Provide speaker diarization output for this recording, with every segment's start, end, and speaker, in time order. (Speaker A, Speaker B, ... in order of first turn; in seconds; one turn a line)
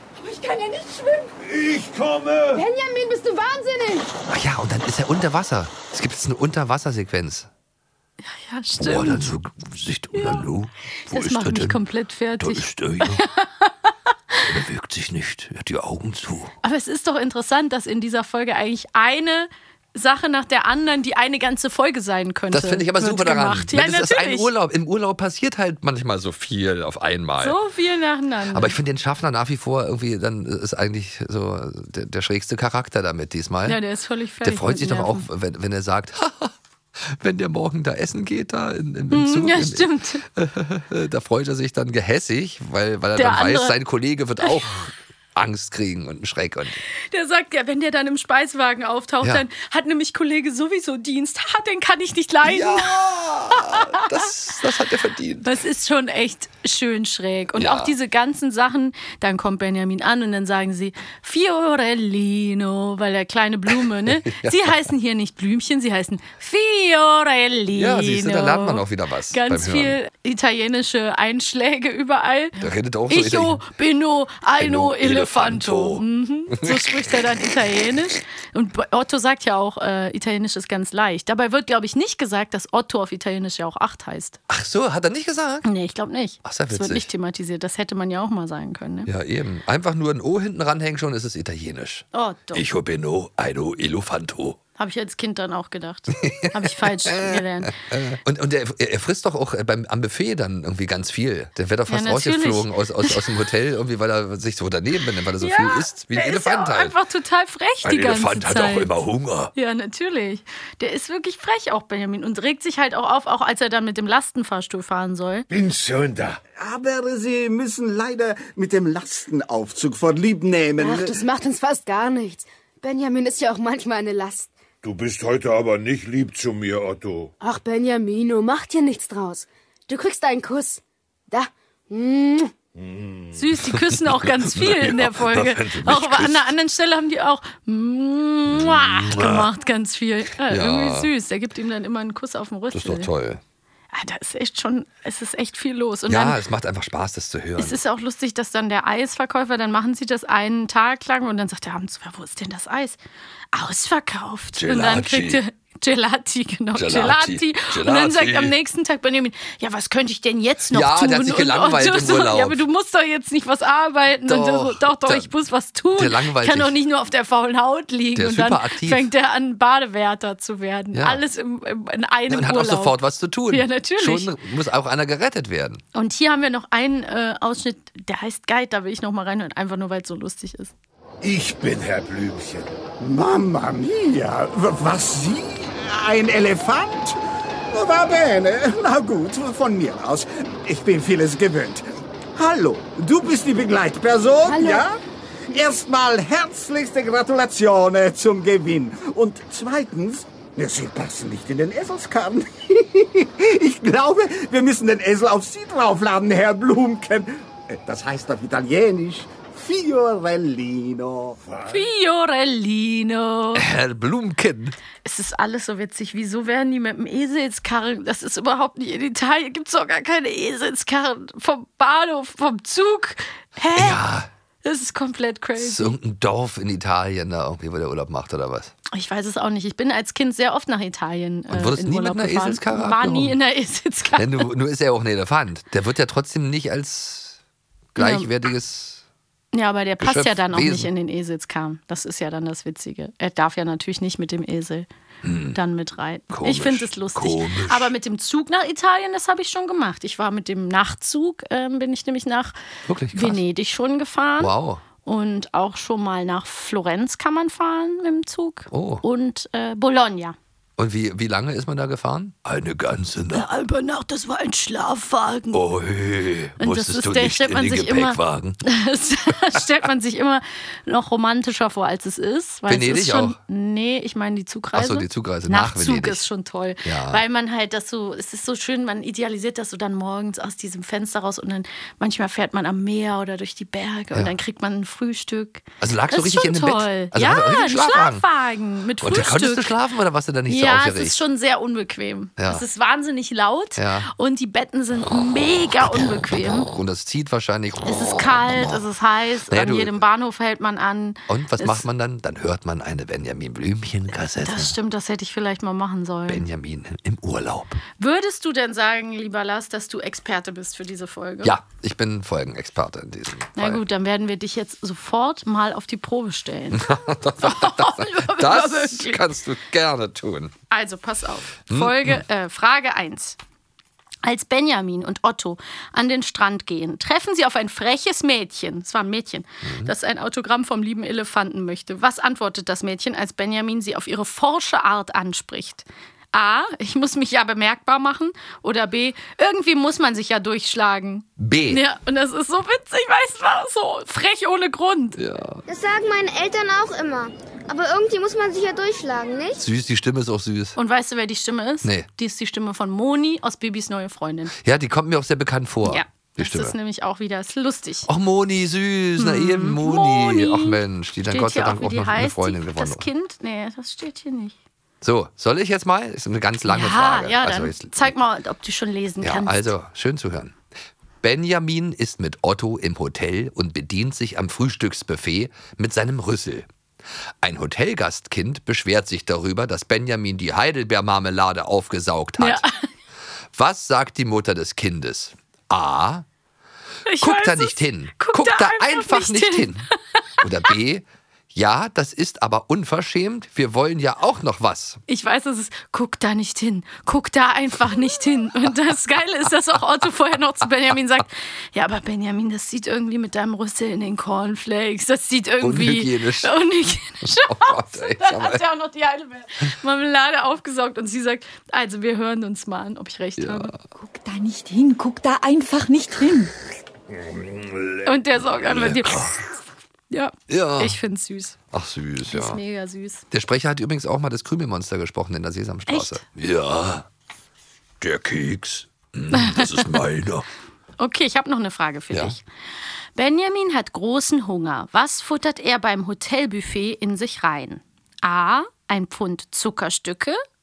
Speaker A: 0.1-1.3
Speaker B: 1.4-2.6
Speaker C: 2.6-4.1
Speaker D: 4.3-7.5
Speaker E: 8.2-9.3
Speaker D: 8.8-11.8
Speaker E: 10.1-10.4
Speaker E: 11.1-14.4
Speaker D: 12.4-13.2
Speaker D: 14.4-16.5
Speaker E: 16.6-24.5
Speaker D: 22.5-27.6
Speaker E: 27.4-28.8
Speaker D: 28.5-33.8
Speaker E: 33.6-35.2
Speaker D: 34.4-46.8
Speaker E: 39.1-40.2
Speaker E: 43.1-43.8
Speaker E: 47.1-53.0
Speaker D: 52.4-55.5
Speaker E: 53.6-53.9
Speaker E: 55.4-84.4
Speaker D: 57.5-57.9
Speaker D: 63.7-64.8
Speaker D: 67.8-70.0
Speaker D: 72.6-73.6
Speaker D: 74.6-77.1
Speaker D: 84.5-85.7
Speaker E: 85.6-89.1
Speaker D: 86.4-87.1
Speaker D: 89.0-94.6
Speaker E: 92.1-92.7
Speaker E: 94.8-97.8
Speaker D: 96.2-106.9
Speaker E: 101.9-103.3
Speaker E: 105.4-109.0
Speaker D: 107.8-109.5
Speaker E: 109.5-115.5
Speaker B: 115.5-116.4
Speaker F: 116.6-121.2
Speaker C: 120.8-124.5
Speaker B: 124.8-127.3
Speaker C: 127.4-132.5
Speaker B: 132.8-133.4
Speaker E: 133.3-143.1
Speaker D: 133.9-136.5
Speaker D: 138.5-139.5
Speaker D: 140.4-141.1
Speaker D: 142.7-143.4
Speaker E: 143.9-146.4
Speaker D: 146.1-147.8
Speaker E: 147.6-153.0
Speaker E: 153.5-173.0
Speaker D: 154.6-155.4
Speaker D: 156.8-158.5
Speaker D: 160.7-162.6
Speaker D: 164.2-165.3
Speaker D: 165.9-166.8
Speaker D: 168.1-169.1
Speaker D: 170.9-171.2
Speaker D: 172.3-175.8
Speaker E: 173.5-174.3
Speaker E: 175.9-180.7
Speaker B: 181.2-182.7
Speaker F: 183.0-187.2
Speaker F: 187.7-211.4
Speaker C: 194.4-194.9
Speaker B: 211.4-211.9
Speaker E: 211.7-213.7
Speaker D: 213.5-214.8
Speaker E: 215.0-224.0
Speaker D: 223.7-224.3
Speaker E: 224.6-225.9
Speaker D: 225.6-228.7
Speaker E: 228.9-234.5
Speaker D: 231.5-233.4
Speaker D: 234.2-237.4
Speaker D: 237.9-239.0
Speaker E: 238.0-238.3
Speaker E: 239.5-244.9
Speaker D: 240.0-240.9
Speaker D: 245.2-245.6
Speaker E: 245.5-252.5
Speaker D: 246.3-247.9
Speaker D: 252.9-253.4
Speaker E: 253.1-260.4
Speaker D: 254.4-254.8
Speaker D: 258.7-259.0
Speaker D: 260.8-263.4
Speaker E: 263.3-265.6
Speaker D: 265.5-268.6
Speaker E: 266.6-289.7
Speaker D: 272.7-273.4
Speaker D: 274.7-276.2
Speaker D: 276.8-277.2
Speaker D: 285.8-288.2
Speaker D: 289.0-291.2
Speaker E: 290.5-296.7
Speaker D: 292.4-292.6
Speaker D: 293.8-294.1
Speaker D: 295.8-298.8
Speaker E: 297.9-301.9
Speaker D: 299.5-300.0
Speaker D: 301.3-304.8
Speaker E: 304.4-306.4
Speaker D: 306.3-307.8
Speaker E: 308.0-311.5
Speaker D: 311.4-313.8
Speaker E: 313.6-319.2
Speaker D: 316.7-320.5
Speaker E: 320.7-323.4
Speaker D: 321.7-322.2
Speaker E: 324.2-345.2
Speaker D: 329.6-329.9
Speaker D: 341.4-341.8
Speaker D: 345.2-345.6
Speaker G: 345.7-349.6
Speaker D: 349.6-350.8
Speaker E: 350.8-354.5
Speaker D: 351.8-352.1
Speaker D: 354.6-356.8
Speaker E: 355.9-358.1
Speaker D: 358.1-363.1
Speaker E: 359.2-364.6
Speaker D: 365.0-368.1
Speaker E: 366.6-369.7
Speaker D: 369.2-370.6
Speaker D: 371.2-376.7
Speaker D: 377.4-382.6
Speaker E: 382.4-382.8
Speaker D: 383.5-386.2
Speaker E: 387.1-390.1
Speaker D: 387.2-389.9
Speaker D: 390.4-395.0
Speaker E: 395.1-413.7
Speaker D: 405.6-406.5
Speaker D: 407.2-408.6
Speaker D: 413.4-413.8
Speaker A: 413.9-416.5
Speaker B: 417.1-418.1
Speaker E: 418.0-419.4
Speaker D: 418.5-419.4
Speaker E: 420.1-421.6
Speaker D: 420.5-421.0
Speaker D: 421.7-422.6
Speaker E: 422.2-423.2
Speaker D: 423.3-427.1
Speaker E: 425.9-426.2
Speaker D: 428.0-430.4
Speaker E: 429.3-429.9
Speaker E: 431.0-432.4
Speaker E: 433.1-440.4